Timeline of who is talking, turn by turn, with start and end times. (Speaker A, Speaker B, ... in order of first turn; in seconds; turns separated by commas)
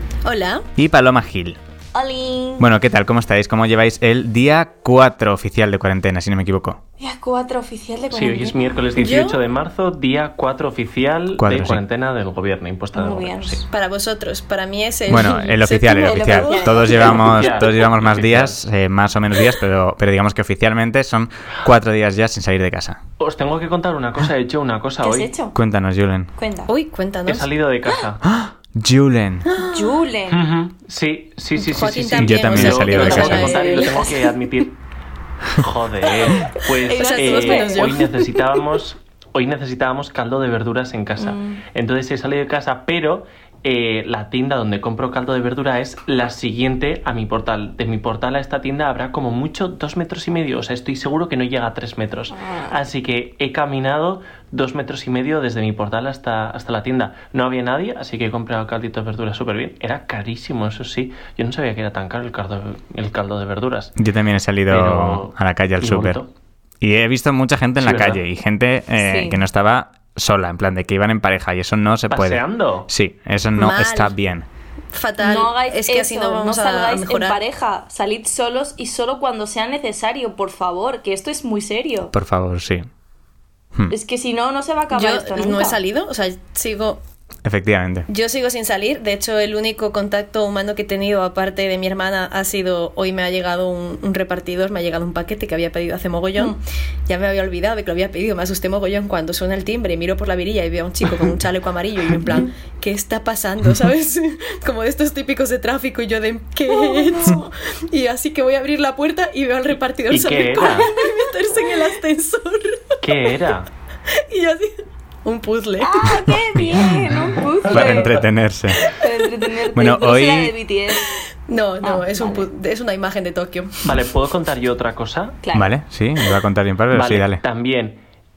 Speaker A: 0.2-0.6, Speaker B: 0.8-1.6, Speaker C: 1.9-2.7, Speaker B: 2.6-6.8, Speaker C: 7.0-8.6, Speaker D: 8.1-13.6, Speaker A: 8.9-9.4, Speaker B: 11.4-11.8, Speaker C: 12.9-13.6, Speaker A: 13.7-17.1, Speaker B: 15.1-23.0, Speaker C: 15.9-17.6, Speaker D: 17.0-18.6, Speaker D: 23.2-25.3, Speaker C: 25.0-25.6, Speaker B: 25.5-26.3, Speaker C: 26.4-26.7, Speaker A: 26.7-27.5, Speaker D: 27.2-28.2, Speaker B: 28.2-29.5, Speaker A: 29.5-30.0, Speaker C: 29.6-30.4, Speaker D: 30.3-34.8, Speaker A: 31.6-34.1, Speaker B: 32.2-33.5, Speaker C: 32.9-34.3, Speaker D: 35.5-63.9, Speaker C: 36.3-38.0, Speaker A: 36.9-38.4, Speaker C: 41.2-41.6, Speaker C: 52.3-52.8, Speaker B: 64.0-66.2, Speaker D: 64.7-66.3, Speaker B: 66.8-74.5, Speaker D: 67.8-68.2, Speaker C: 69.0-69.4, Speaker D: 72.1-72.9, Speaker A: 73.6-74.1, Speaker A: 74.9-77.4, Speaker C: 75.2-82.1, Speaker B: 82.1-82.8, Speaker C: 83.9-85.8, Speaker A: 84.9-87.0, Speaker B: 87.4-88.1, Speaker A: 88.1-113.3, Speaker C: 106.7-107.4, Speaker D: 110.1-110.9, Speaker D: 113.0-113.7, Speaker A: 114.3-114.7, Speaker A: 115.2-116.4, Speaker C: 115.8-118.1, Speaker B: 117.6-118.8, Speaker C: 118.9-121.1, Speaker B: 119.7-120.5, Speaker A: 121.5-123.9, Speaker C: 121.8-122.5, Speaker D: 123.8-125.3, Speaker C: 125.4-125.8, Speaker B: 125.5-127.4, Speaker D: 126.9-128.0